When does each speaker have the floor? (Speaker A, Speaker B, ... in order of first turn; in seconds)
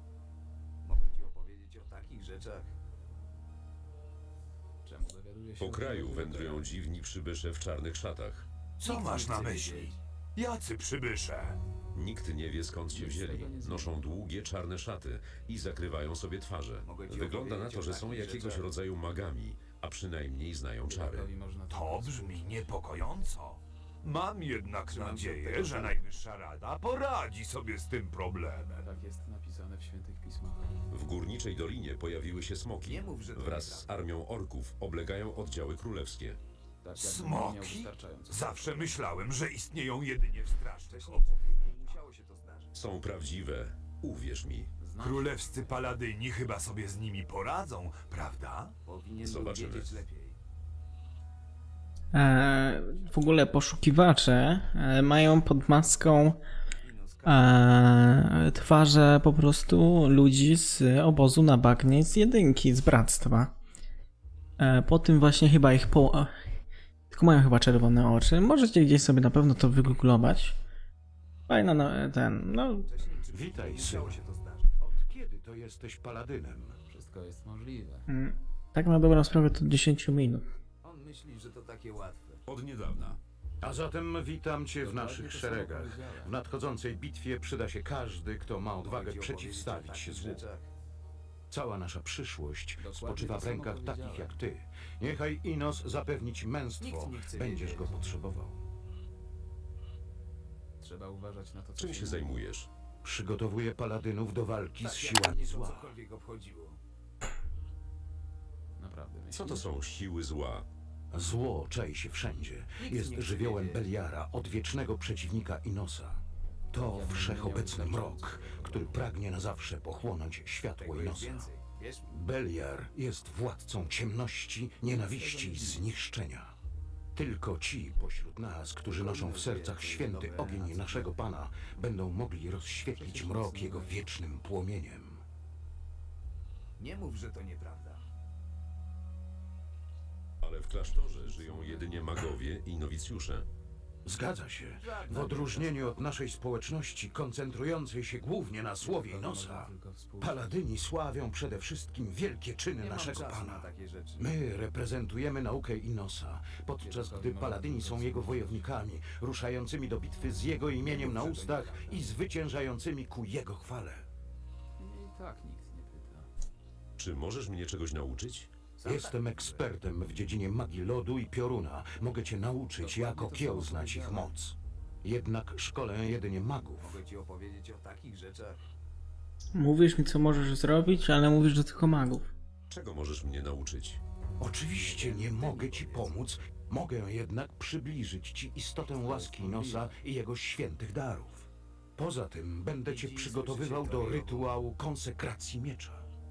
Speaker A: 0.8-2.7, 8.9-10.0, 16.8-18.7, 24.9-26.0, 32.8-34.0, 40.9-42.7, 48.9-50.4, 56.8-57.7, 72.9-74.7, 80.8-82.4, 88.8-90.7, 96.8-98.0, 104.8-106.8, 112.8-113.9, 120.8-122.1, 128.9-131.2, 136.8-138.0, 144.8-146.2, 152.8-154.3, 160.8-162.1, 168.8-169.8, 176.8-178.6, 184.7-186.2, 192.8-194.5
Speaker B: 4.8-6.7, 12.9-13.9, 20.9-22.7, 28.8-30.7, 36.8-39.0, 44.8-45.9, 76.9-78.1, 84.8-86.3, 92.8-94.4, 100.8-102.4, 108.8-109.7, 116.7-119.2, 124.8-125.9, 132.9-134.1, 140.8-142.2, 148.8-150.6, 156.8-158.7, 164.8-166.3, 172.8-174.3, 189.0-189.9
Speaker C: 5.6-8.5, 11.9-21.3, 30.9-36.4, 42.7-44.7, 49.2-50.0, 82.5-83.2, 101.8-102.7, 109.3-110.7, 140.4-143.5, 167.0-168.5, 182.7-184.0
Speaker D: 8.8-11.6, 21.7-28.9, 37.0-41.5, 45.0-48.7
Speaker E: 52.1-56.4, 57.2-63.5, 64.6-66.3, 67.1-70.6, 71.5-72.9, 78.1-80.5, 179.6-182.3
Speaker F: 73.3-74.2, 74.8-76.8, 83.6-90.4, 91.5-98.6, 103.0-106.0, 111.1-116.2, 116.7-121.5, 122.1-126.5, 127.2-135.2, 144.1-164.1, 168.8-177.0, 184.4-196.0